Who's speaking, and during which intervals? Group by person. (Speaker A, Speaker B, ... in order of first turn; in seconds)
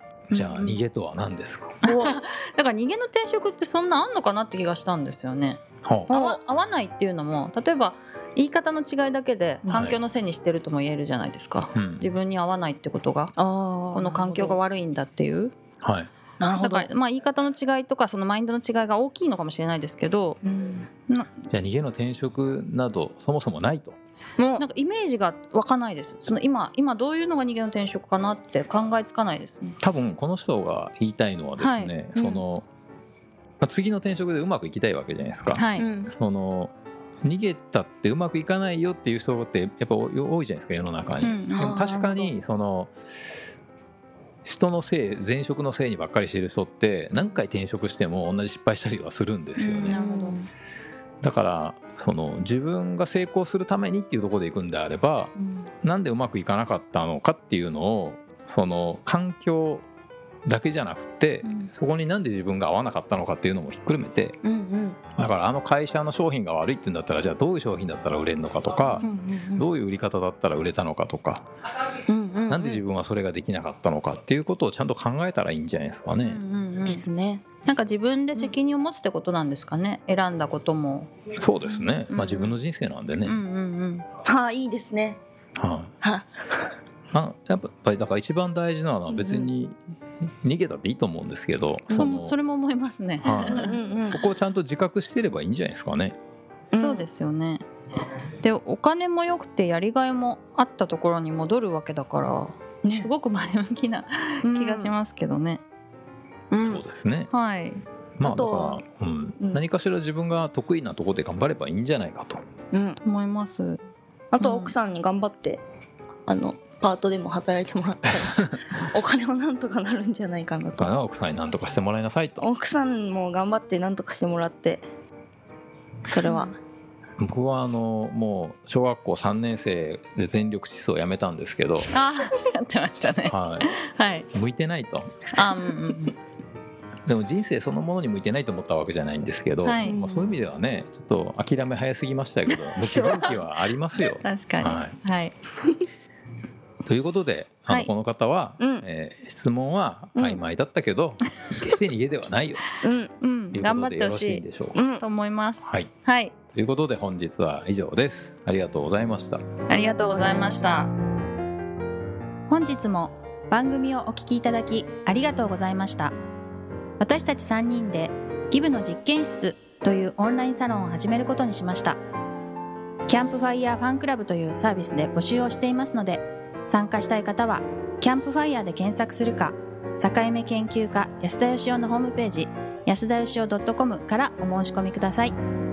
Speaker A: 0.3-0.8, 1.8-2.1, 6.1-6.4, 13.4-14.6, 16.4-16.9, 20.4-20.9, 24.4-24.6, 32.1-32.4, 35.8-36.1, 41.5-42.3, 47.1-47.4, 49.8-50.5, 55.4-55.7, 64.4-65.0, 69.0-69.7, 72.1-72.8, 76.8-77.4, 84.2-85.2, 86.0-86.3, 89.1-89.5, 91.9-92.2, 93.4-94.2, 96.7-97.1, 102.8-103.1, 104.4-104.9, 106.5-106.8, 108.2-108.8, 112.7-113.0, 114.3-115.6, 116.3-120.9, 122.4-124.8, 126.0-126.5, 139.8-140.4, 142.5-143.4, 148.6-148.8, 152.8-153.1, 154.7-155.0, 159.7-160.8
Speaker B: 0.3-1.8, 5.8-6.1, 9.7-10.0, 11.7-12.1, 15.8-16.1, 21.5-24.0, 29.8-32.6, 33.6-42.9, 44.4-50.0, 51.2-59.8, 60.5-64.4, 65.2-71.4, 72.5-76.4, 81.4-83.4, 85.6-85.9, 87.1-89.8, 90.4-92.4, 93.2-96.2, 106.6-107.3, 108.2-112.4, 120.8-122.4, 127.2-131.9, 133.3-133.7, 134.3-135.2, 137.1-144.9, 146.8-152.6, 153.5-154.8, 155.6-155.9, 156.5-159.5
Speaker C: 1.8-13.3, 13.9-15.5, 16.5-20.4, 24.6-29.8, 31.6-31.9, 35.5-35.9, 41.2-41.8, 49.6-50.4, 61.4-61.7, 76.2-77.0, 77.6-81.1, 82.1-82.5, 83.2-84.0, 92.0-93.8, 96.7-97.6, 98.4-105.6, 107.3-107.8, 113.0-113.8, 114.4-114.7, 126.2-126.5, 131.9-134.3, 135.3-136.1, 139.6-139.9, 144.2-145.3, 153.2-154.4, 155.0-156.3, 159.7-160.9, 162.5-166.1, 167.0-172.0, 173.1-185.3